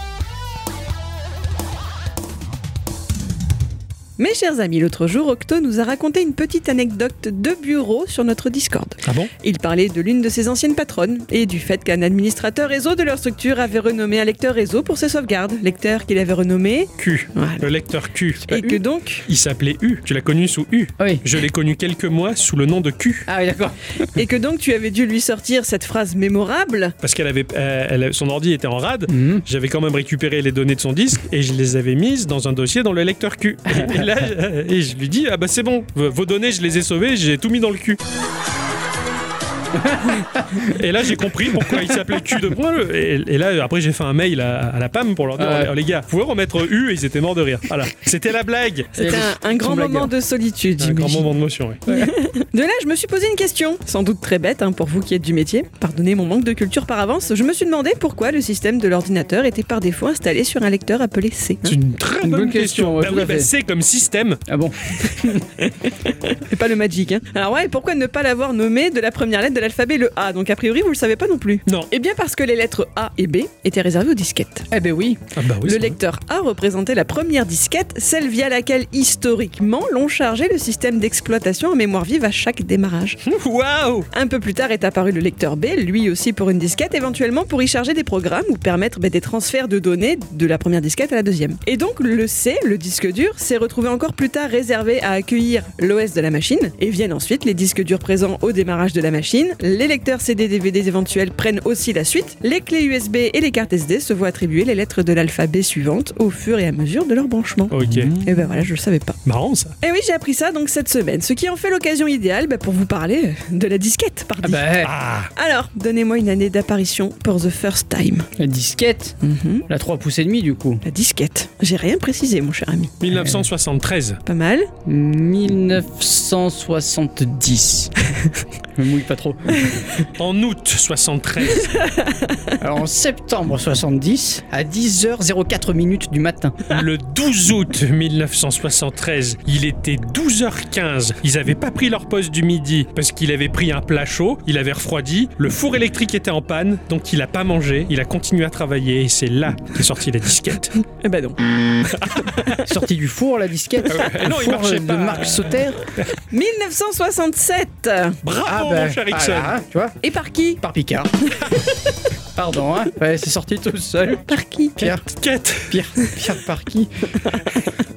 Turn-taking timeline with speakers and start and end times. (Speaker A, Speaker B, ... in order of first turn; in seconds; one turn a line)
Speaker A: 4.2-17.6
Speaker B: 9.0-9.3
Speaker B: 17.0-23.3
Speaker A: 18.5-19.2
Speaker C: 21.0-21.2
Speaker C: 23.3-23.8
Speaker A: 24.1-26.9
Speaker B: 27.0-38.0
Speaker C: 29.1-29.4
Speaker C: 33.7-34.0
Speaker C: 39.7-40.8
Speaker B: 40.7-49.0
Speaker C: 41.5-42.4
Speaker C: 45.4-45.7
Speaker C: 48.9-50.1
Speaker A: 48.9-51.3
Speaker B: 50.8-51.8
Speaker C: 51.9-52.1
Speaker A: 51.9-61.8
Speaker B: 61.6-64.4
Speaker C: 62.2-63.5
Speaker C: 64.5-65.5
Speaker A: 65.7-74.7
Speaker C: 74.7-75.2
Speaker B: 75.3-76.0
Speaker A: 75.6-83.2
Speaker B: 83.2-84.1
Speaker A: 84.1-109.2
Speaker B: 107.7-108.2
Speaker C: 107.8-108.4
Speaker B: 109.2-109.7
Speaker A: 109.8-114.7
Speaker C: 114.4-114.9
Speaker B: 114.8-115.3
Speaker A: 115.3-118.3
Speaker C: 118.4-119.2
Speaker A: 119.2-119.7
Speaker C: 119.7-120.8
Speaker A: 120.8-122.9
Speaker B: 123.0-124.2
Speaker C: 123.1-123.4
Speaker A: 124.2-124.7
Speaker C: 124.8-127.9
Speaker C: 128.7-129.8
Speaker B: 130.2-131.8
Speaker A: 131.7-132.5
Speaker C: 132.6-136.6
Speaker B: 136.7-150.8
Speaker A: 151.0-152.6
Speaker B: 151.9-152.3
Speaker C: 152.6-155.8
Speaker B: 153.9-156.1
Speaker A: 156.3-158.2
Speaker B: 158.2-159.5
Speaker C: 158.4-160.0
Speaker A: 160.0-160.6
Speaker C: 160.6-161.1
Speaker C: 162.3-165.0
Speaker A: 164.3-164.9
Speaker B: 164.8-165.8
Speaker C: 165.7-167.2
Speaker A: 167.2-167.7